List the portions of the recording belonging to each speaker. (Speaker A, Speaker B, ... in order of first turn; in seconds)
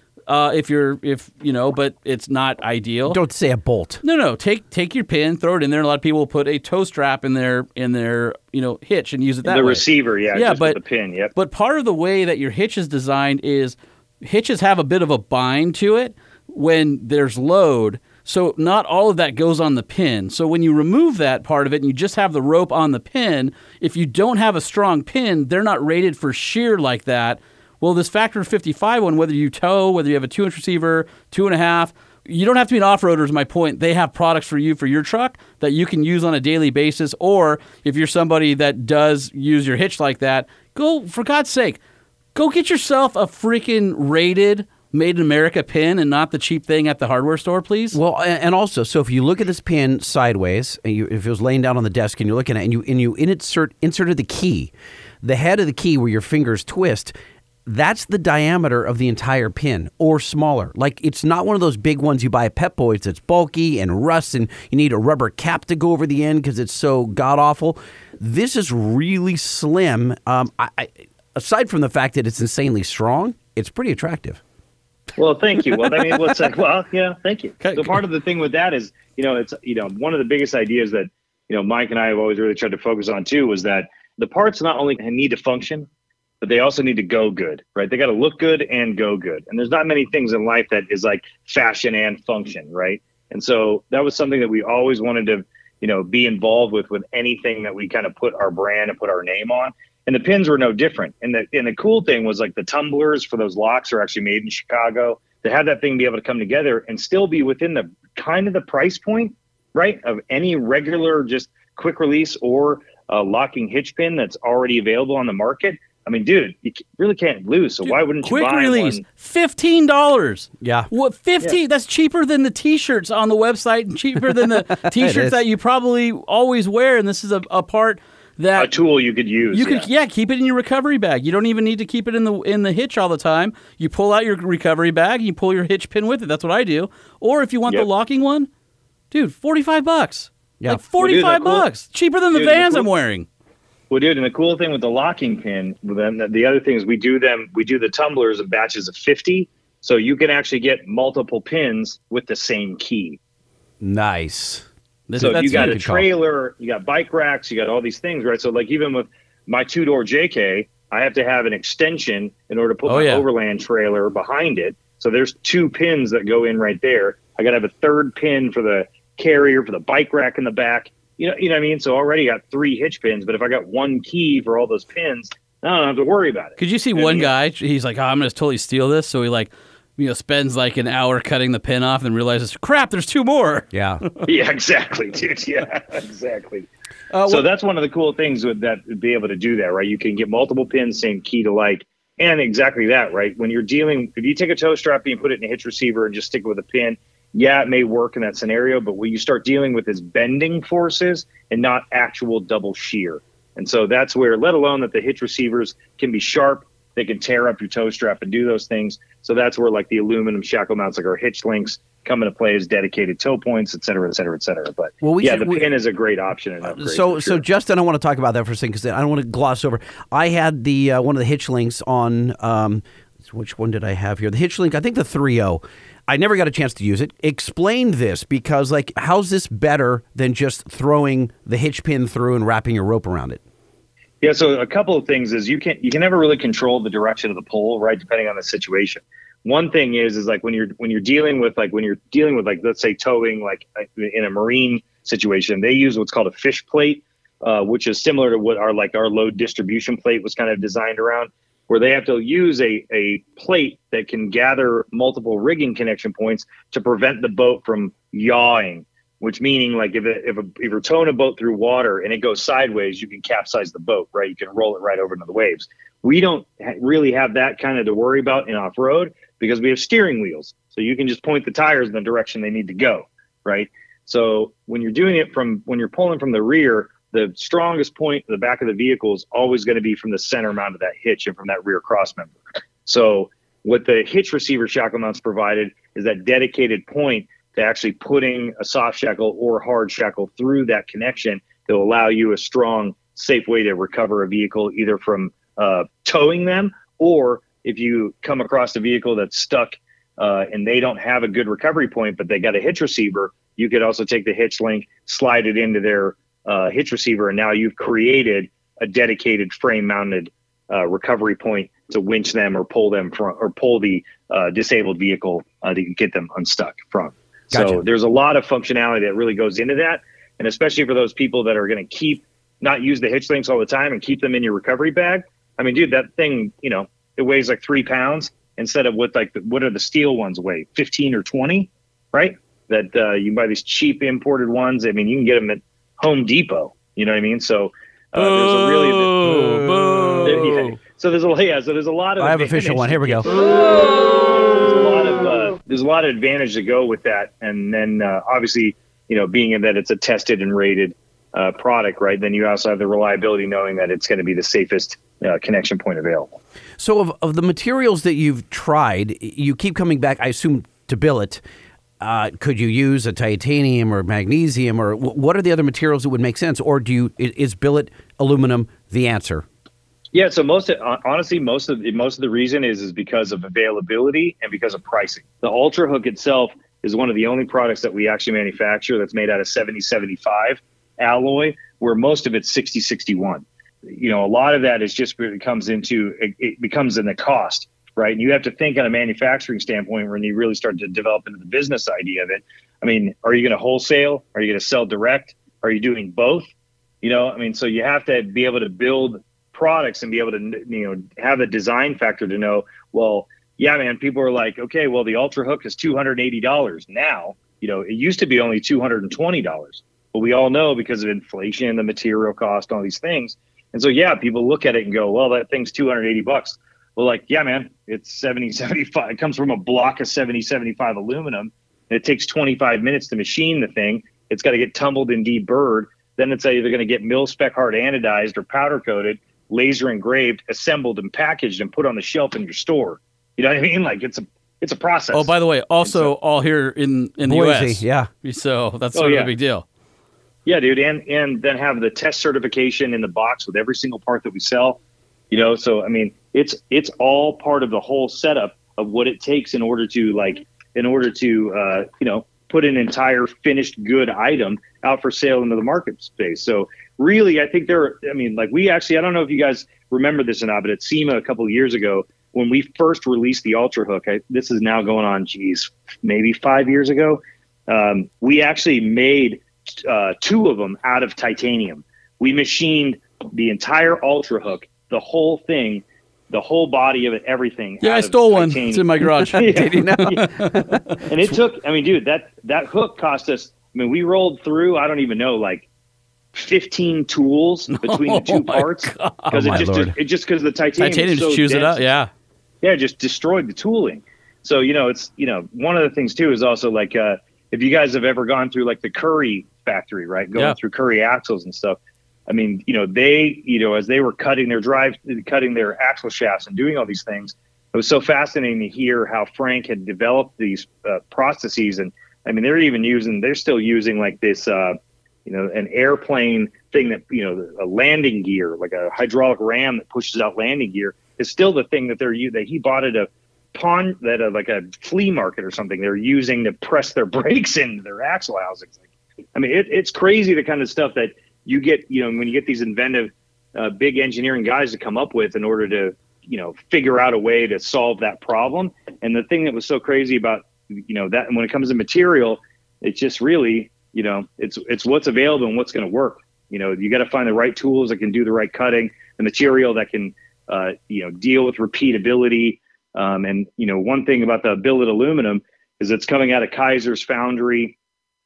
Speaker A: 0.3-3.2, 4.0-9.8, 10.3-10.8, 11.3-41.8, 42.3-48.0, 77.6-78.0, 117.8-128.7, 129.5-138.5, 139.1-143.3, 155.1-155.8, 162.8-163.2, 176.6-184.2, 187.1-187.4, 338.1-340.8, 435.1-439.6, 477.8-480.8, 487.7-489.7, 490.8-492.1
Speaker B: 3.1-4.0, 47.9-54.7, 55.2-57.1, 57.6-74.4, 120.6-120.9, 124.7-125.4, 153.8-156.1, 183.7-184.0, 215.0-215.7, 216.7-233.4, 317.5-317.8, 339.2-340.3, 342.2-343.3, 356.8-361.4, 362.0-369.4, 437.2-438.1, 479.2-481.1, 489.5-489.9
Speaker C: 9.4-11.3, 75.2-85.9, 86.4-119.0, 128.6-129.9, 141.0-141.7, 142.3-142.9, 143.9-153.2, 155.2-177.3, 184.2-186.7, 187.3-217.4, 234.2-339.2, 340.2-356.4, 370.1-396.5, 397.0-436.1, 438.9-439.3, 440.4-444.8, 445.3-480.2, 481.1-485.6, 486.3-491.9, 492.6-528.7, 529.3-557.7